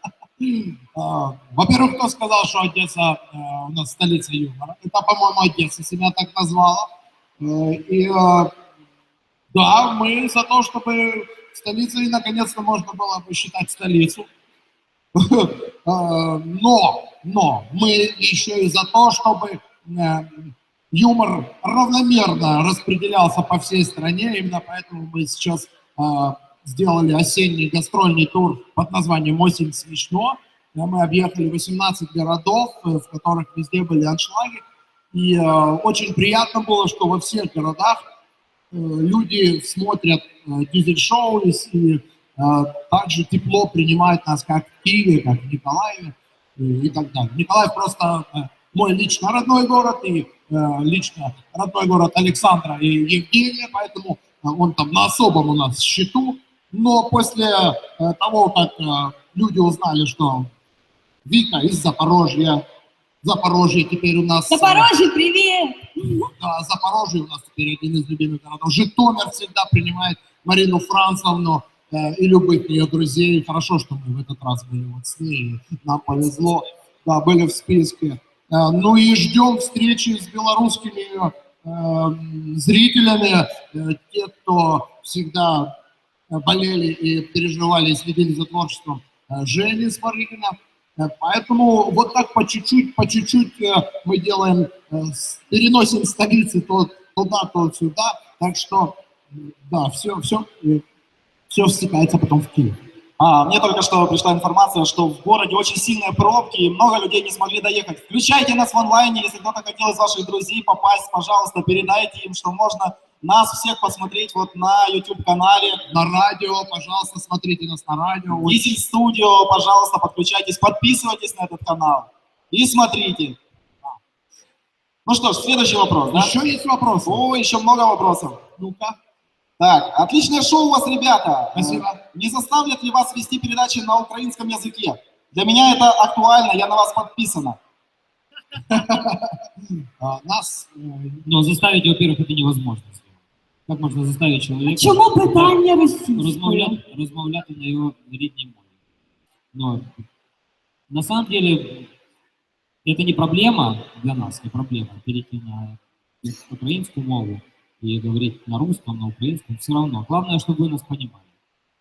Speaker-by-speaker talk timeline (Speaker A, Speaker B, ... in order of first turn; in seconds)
Speaker A: 0.4-8.5, 9.5-14.3, 15.1-38.0, 38.7-60.5, 61.2-62.6, 63.2-64.9, 66.4-85.7, 86.3-100.8, 101.5-102.8, 115.9-118.8, 126.1-127.2, 128.6-129.0, 131.5-132.0, 138.7-139.3, 140.0-141.2
Speaker B: 64.5-66.3, 144.7-146.8
Speaker C: 103.2-115.8, 118.4-123.4, 125.1-126.3, 127.0-128.4, 129.6-137.6
Speaker D: 141.2-143.1, 143.7-145.6, 146.2-148.6, 149.5-150.0, 150.9-151.9, 152.8-161.2